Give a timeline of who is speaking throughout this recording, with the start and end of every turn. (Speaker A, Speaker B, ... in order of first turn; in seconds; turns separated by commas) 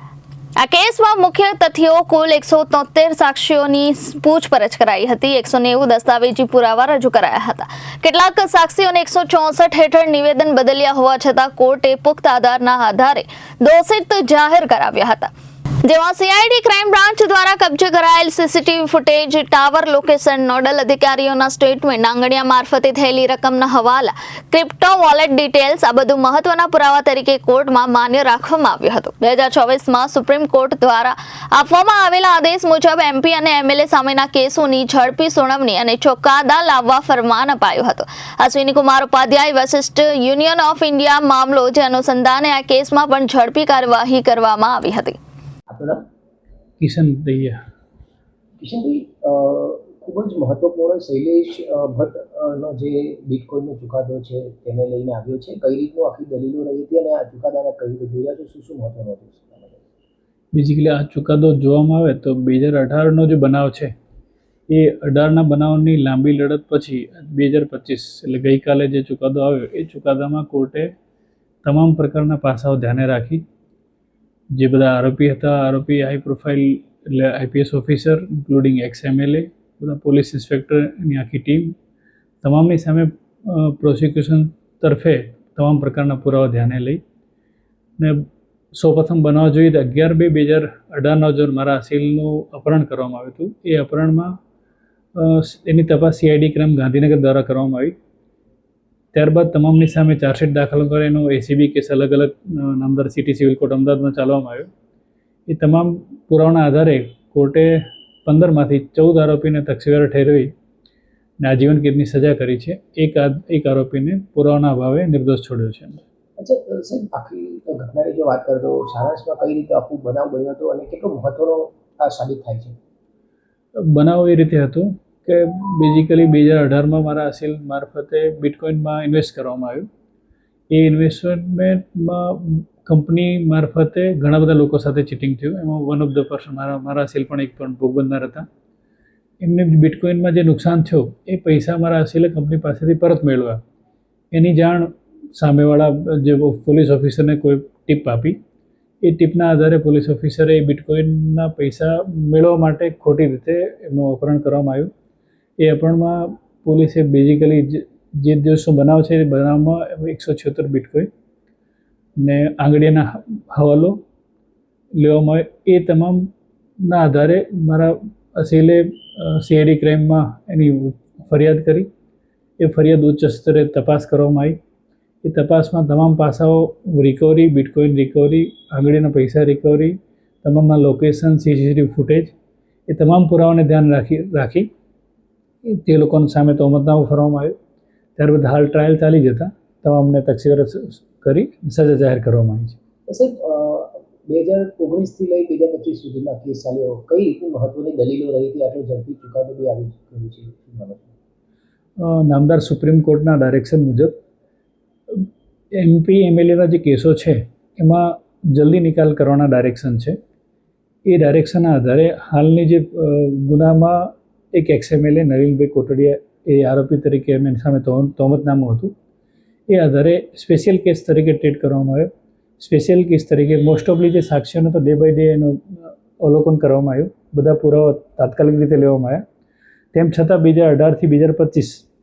Speaker A: 0.6-15.3, Speaker A: 15.8-45.2, Speaker B: 45.7-46.0, Speaker C: 46.8-47.6, Speaker B: 48.6-59.8, Speaker C: 60.5-63.9, Speaker C: 64.7-70.9, Speaker C: 71.6-73.4, Speaker C: 74.5-81.7, Speaker C: 82.4-87.0, Speaker C: 88.0-94.4, Speaker C: 95.2-98.0, Speaker C: 99.1-104.7, Speaker C: 105.5-107.7, Speaker C: 108.2-110.5, Speaker C: 111.4-116.0, Speaker B: 116.4-122.8, Speaker C: 123.9-129.9, Speaker C: 130.7-138.4, Speaker C: 139.4-143.6, Speaker C: 144.3-148.4, Speaker C: 149.0-154.9, Speaker C: 155.6-161.1, Speaker C: 162.2-164.0, Speaker C: 165.0-166.3, Speaker C: 166.8-171.9, Speaker C: 172.6-174.6, Speaker C: 175.2-182.3, Speaker C: 182.9-184.7, Speaker C: 185.6-187.5, Speaker C: 188.2-192.8, Speaker B: 193.1-201.1, Speaker C: 202.0-204.2, Speaker C: 205.1-210.2, Speaker C: 211.1-218.9, Speaker C: 219.7-222.1, Speaker C: 222.6-229.2, Speaker C: 229.9-231.8